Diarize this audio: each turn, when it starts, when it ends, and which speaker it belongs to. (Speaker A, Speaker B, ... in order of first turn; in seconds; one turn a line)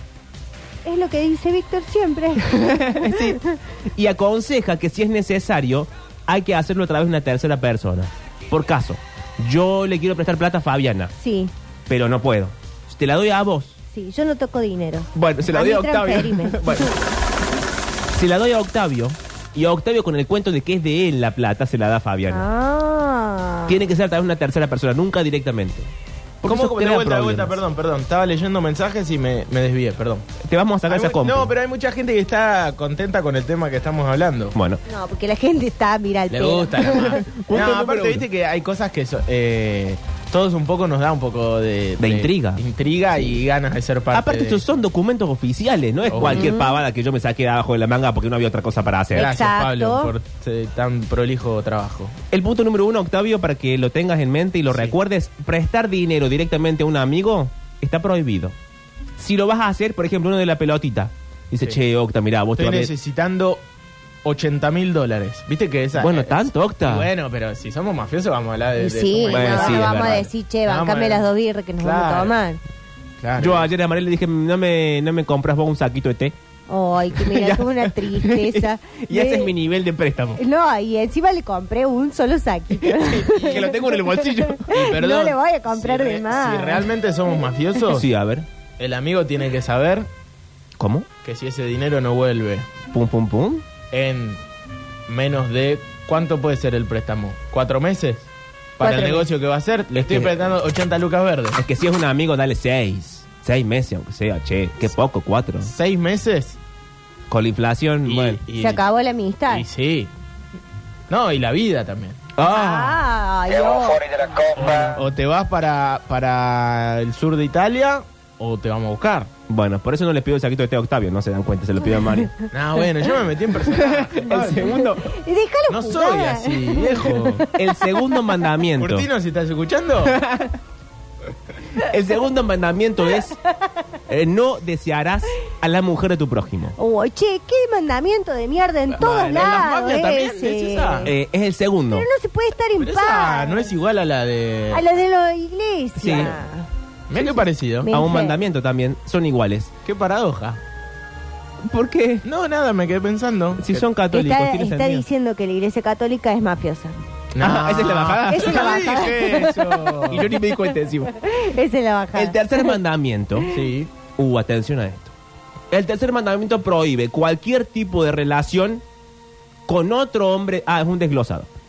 Speaker A: 0.8-3.4
Speaker B: 2.4-3.4
Speaker B: 3.9-11.1
Speaker A: 11.2-11.5
Speaker B: 11.9-13.8
Speaker A: 13.9-16.9
Speaker B: 15.1-16.9
Speaker B: 18.1-22.4
Speaker A: 22.3-23.8
Speaker B: 23.7-25.9
Speaker B: 26.4-27.6
Speaker C: 26.4-30.2
Speaker B: 30.4-31.5
Speaker C: 30.9-34.5
Speaker B: 34.5-34.8
Speaker A: 34.9-37.2
Speaker C: 36.3-44.6
Speaker B: 36.9-38.2
Speaker B: 42.0-42.6
Speaker B: 44.1-49.3
Speaker C: 46.1-46.5
Speaker A: 46.2-46.8
Speaker A: 49.1-50.1
Speaker C: 49.1-52.1
Speaker B: 52.3-58.5
Speaker C: 54.7-54.9
Speaker B: 59.2-62.9
Speaker C: 62.5-63.6
Speaker C: 64.2-71.3
Speaker B: 66.0-67.1
Speaker A: 68.8-72.6
Speaker B: 69.3-70.3
Speaker C: 71.8-72.3
Speaker C: 73.2-73.7
Speaker B: 73.4-76.3
Speaker A: 76.7-79.5
Speaker B: 77.1-80.4
Speaker A: 80.4-86.8
Speaker B: 82.8-84.7
Speaker C: 84.7-88.0
Speaker B: 87.9-88.5
Speaker C: 88.8-90.1
Speaker B: 90.8-91.1
Speaker C: 91.2-92.7
Speaker B: 92.9-93.6
Speaker C: 93.9-94.4
Speaker C: 95.1-98.3
Speaker C: 98.8-101.6
Speaker A: 98.8-99.3
Speaker B: 100.0-100.3
Speaker B: 101.6-105.7
Speaker C: 105.6-106.6
Speaker B: 107.3-108.4
Speaker C: 108.0-108.8
Speaker A: 108.5-109.6
Speaker C: 109.5-110.1
Speaker C: 111.1-113.0
Speaker A: 112.4-114.0
Speaker C: 114.6-119.3
Speaker B: 119.5-122.3
Speaker C: 122.5-124.7
Speaker B: 123.7-125.1
Speaker A: 124.4-127.5
Speaker C: 125.7-127.5
Speaker B: 127.5-129.1
Speaker C: 128.8-130.2
Speaker B: 130.0-130.6
Speaker B: 131.8-133.4
Speaker B: 134.1-136.8
Speaker A: 136.8-141.1
Speaker C: 139.0-141.1
Speaker B: 141.1-142.1
Speaker A: 141.9-143.7
Speaker C: 142.8-144.8
Speaker A: 144.7-148.4
Speaker B: 146.0-146.3
Speaker C: 147.1-147.9
Speaker B: 147.9-149.7
Speaker C: 149.8-150.6
Speaker B: 151.6-152.2
Speaker C: 152.2-153.8
Speaker B: 153.6-155.0
Speaker A: 154.1-156.9
Speaker C: 157.3-160.3
Speaker B: 157.4-159.0
Speaker A: 158.3-159.9
Speaker B: 160.1-161.1
Speaker A: 161.2-162.7
Speaker B: 162.1-163.5
Speaker C: 163.5-163.9
Speaker B: 164.2-165.1
Speaker B: 165.7-168.8
Speaker B: 169.7-171.5